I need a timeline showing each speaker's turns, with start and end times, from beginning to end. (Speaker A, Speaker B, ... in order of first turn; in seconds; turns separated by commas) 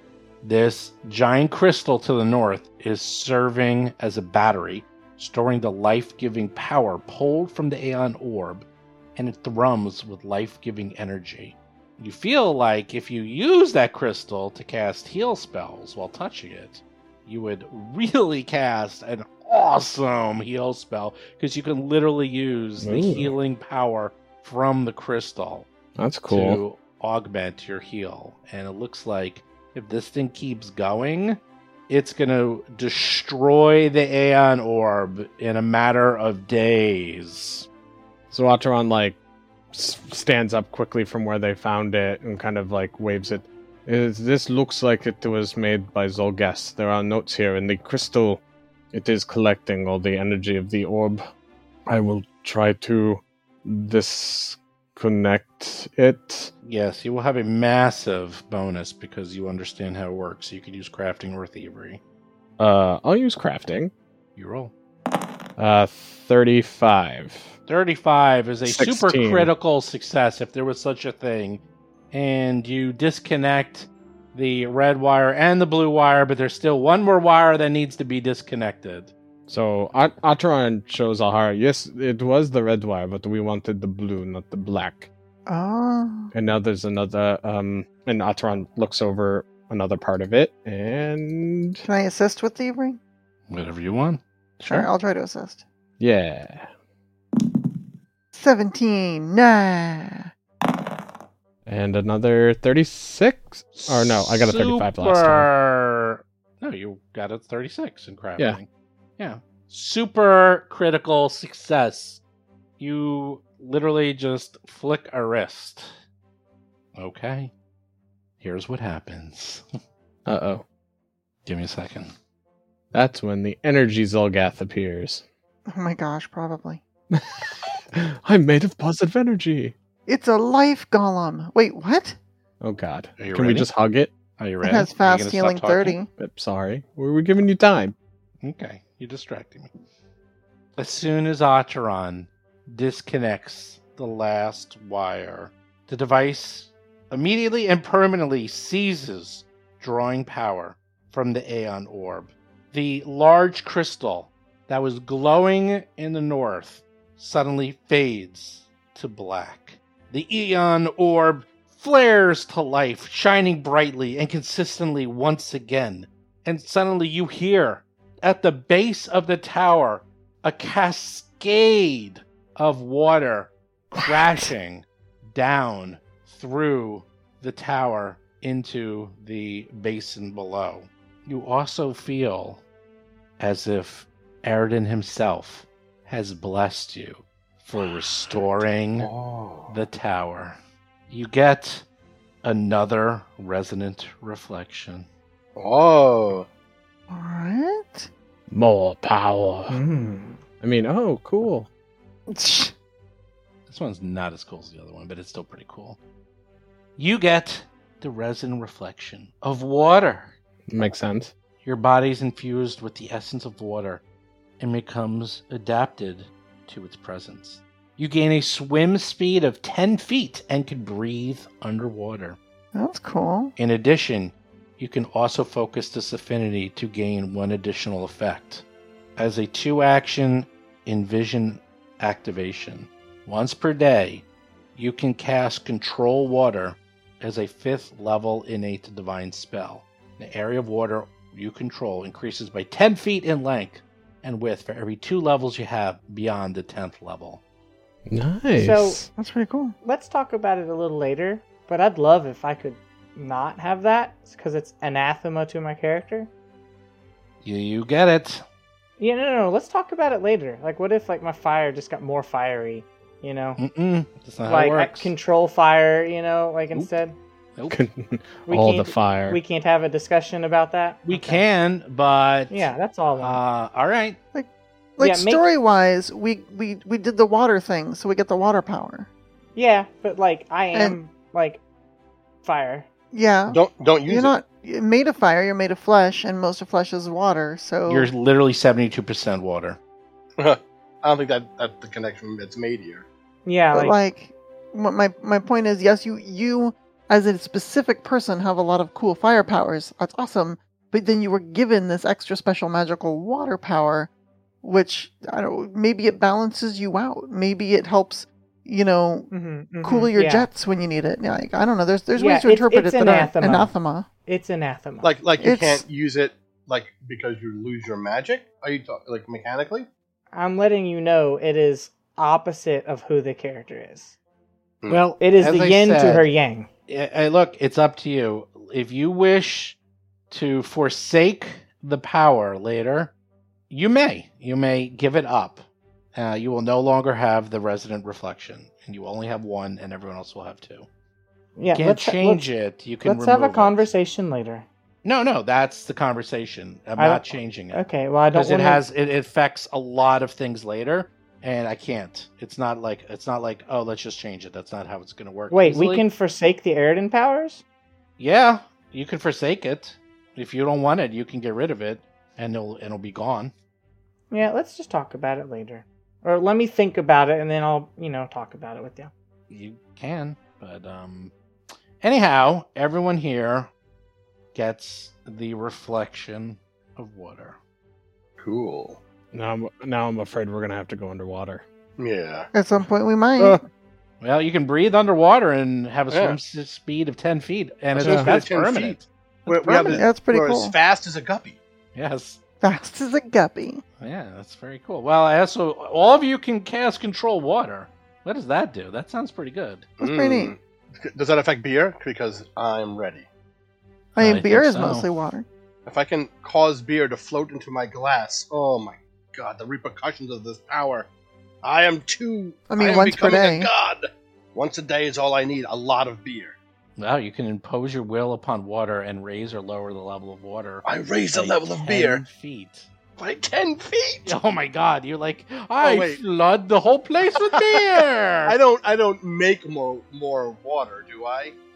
Speaker A: 0.4-25.7, Speaker B: 22.8-23.3, Speaker B: 26.0-26.6, Speaker A: 26.3-37.7, Speaker B: 38.3-39.2, Speaker B: 39.7-48.4, Speaker B: 48.9-51.3, Speaker B: 51.9-56.5, Speaker A: 56.6-62.0, Speaker B: 62.6-63.9, Speaker A: 64.3-64.7, Speaker B: 65.6-67.5, Speaker A: 67.7-79.1, Speaker B: 68.6-69.5, Speaker B: 79.5-85.1, Speaker C: 85.5-86.3, Speaker B: 86.3-91.8, Speaker C: 91.8-93.0, Speaker A: 93.5-94.2, Speaker C: 94.7-95.6, Speaker B: 96.0-96.7, Speaker C: 98.3-100.3, Speaker B: 101.7-105.5, Speaker A: 103.8-108.7, Speaker A: 109.2-112.2, Speaker A: 112.8-115.9, Speaker A: 117.0-117.5, Speaker A: 118.4-119.6, Speaker B: 120.2-120.6, Speaker A: 121.5-122.1, Speaker B: 122.9-125.2, Speaker C: 125.7-126.8, Speaker B: 127.1-129.7, Speaker C: 130.1-132.2, Speaker B: 132.6-134.1, Speaker A: 133.2-133.7, Speaker A: 134.4-136.0, Speaker C: 134.6-136.1, Speaker B: 136.2-137.9, Speaker A: 138.4-139.7, Speaker A: 140.8-182.6, Speaker A: 183.4-189.1, Speaker D: 189.0-189.7, Speaker A: 189.7-190.6, Speaker A: 191.1-191.8, Speaker A: 192.4-195.1, Speaker D: 195.6-196.5, Speaker C: 197.1-198.1, Speaker B: 198.5-199.8, Speaker E: 199.7-200.4, Speaker B: 200.6-201.7, Speaker C: 202.3-202.7, Speaker A: 203.7-206.0, Speaker A: 207.0-210.3, Speaker B: 210.7-211.3, Speaker A: 211.6-214.0, Speaker A: 214.6-222.4, Speaker C: 222.7-223.5, Speaker A: 223.6-228.6, Speaker A: 229.2-247.4, Speaker B: 248.1-249.1, Speaker E: 248.5-249.1, Speaker C: 249.2-249.7, Speaker E: 249.8-256.3, Speaker A: 257.4-258.4, Speaker E: 259.0-263.6, Speaker A: 263.6-265.1, Speaker E: 264.5-267.1, Speaker A: 267.6-267.8, Speaker B: 267.7-269.4, Speaker E: 268.5-271.4, Speaker A: 271.1-274.2, Speaker E: 272.5-273.4, Speaker C: 274.3-279.1, Speaker E: 275.0-275.5, Speaker E: 279.6-281.6, Speaker E: 282.4-282.9, Speaker C: 283.1-288.1, Speaker D: 283.5-284.3, Speaker A: 287.9-289.8, Speaker D: 290.4-293.1, Speaker E: 293.4-294.0, Speaker C: 293.7-304.1, Speaker C: 304.6-309.3, Speaker E: 309.3-310.5, Speaker C: 309.8-314.1, Speaker E: 312.1-313.7, Speaker E: 314.2-315.2, Speaker D: 315.0-319.9, Speaker C: 315.4-315.8, Speaker E: 320.3-324.1, Speaker A: 324.9-326.3, Speaker E: 325.2-326.7, Speaker A: 326.9-329.8, Speaker A: 330.3-333.1, Speaker A: 333.7-340.9, Speaker E: 341.6-342.4, Speaker A: 341.7-343.9, Speaker E: 343.0-344.6, Speaker A: 345.0-356.0, Speaker E: 347.0-348.8, Speaker E: 355.5-357.6, Speaker A: 358.2-363.5, Speaker E: 364.3-369.1, Speaker A: 369.5-371.3, Speaker A: 372.0-373.7, Speaker A: 374.5-377.6, Speaker D: 378.4-379.0, Speaker B: 379.3-381.6, Speaker D: 382.0-382.5, Speaker C: 382.5-383.6, Speaker A: 384.2-390.0, Speaker D: 386.1-386.4, Speaker D: 387.9-391.6, Speaker B: 388.0-388.3, Speaker C: 389.8-390.7, Speaker A: 391.9-392.4, Speaker C: 392.6-393.8, Speaker A: 394.0-399.9, Speaker C: 400.0-400.5, Speaker D: 400.0-403.3, Speaker C: 404.1-405.4, Speaker A: 404.2-405.1, Speaker D: 405.9-411.1, Speaker D: 411.6-416.6, Speaker C: 412.7-413.7, Speaker A: 417.0-422.9, Speaker D: 420.8-422.2, Speaker D: 423.2-424.4, Speaker A: 424.2-428.6, Speaker D: 425.8-426.2, Speaker D: 427.4-427.8, Speaker D: 428.4-431.5